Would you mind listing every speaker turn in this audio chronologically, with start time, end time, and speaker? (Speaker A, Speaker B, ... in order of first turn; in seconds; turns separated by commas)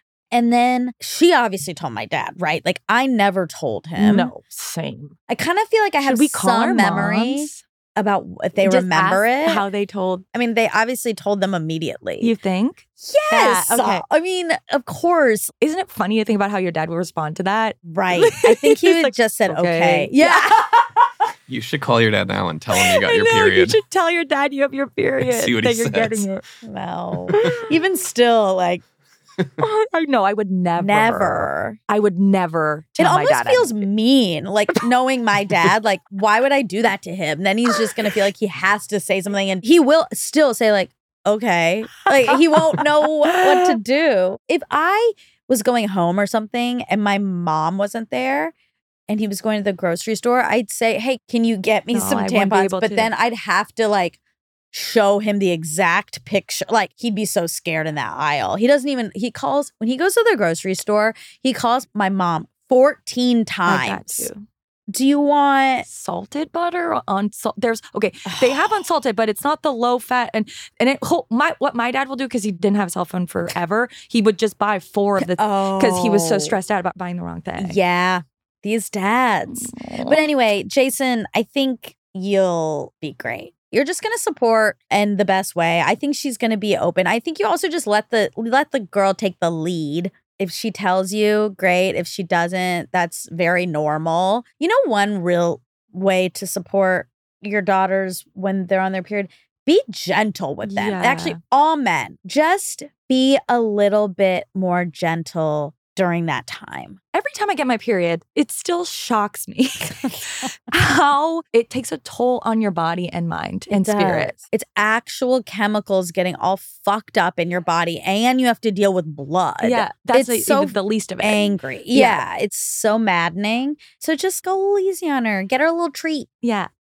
Speaker A: 0.3-4.3, Speaker B: 4.0-5.2, Speaker A: 5.3-9.6, Speaker B: 6.0-7.6, Speaker B: 8.6-10.2, Speaker A: 10.3-12.3, Speaker B: 12.2-14.0, Speaker A: 13.0-15.5, Speaker B: 15.6-21.1, Speaker A: 17.8-20.5, Speaker C: 21.5-23.8, Speaker B: 22.7-26.4, Speaker C: 25.2-26.4, Speaker A: 26.6-28.8, Speaker B: 27.3-27.7, Speaker B: 29.6-33.8, Speaker A: 30.8-31.8, Speaker A: 33.0-48.5, Speaker B: 42.0-42.6, Speaker B: 43.3-43.8, Speaker A: 49.1-54.2, Speaker B: 51.9-53.1, Speaker A: 54.7-64.3, Speaker B: 63.6-64.4, Speaker A: 64.9-65.9, Speaker B: 65.8-77.8, Speaker A: 68.2-68.8, Speaker A: 75.2-76.5, Speaker A: 77.6-107.0, Speaker B: 79.5-80.3, Speaker B: 100.6-101.4, Speaker B: 107.1-114.4, Speaker A: 113.7-126.3, Speaker B: 119.6-122.2, Speaker B: 126.4-126.7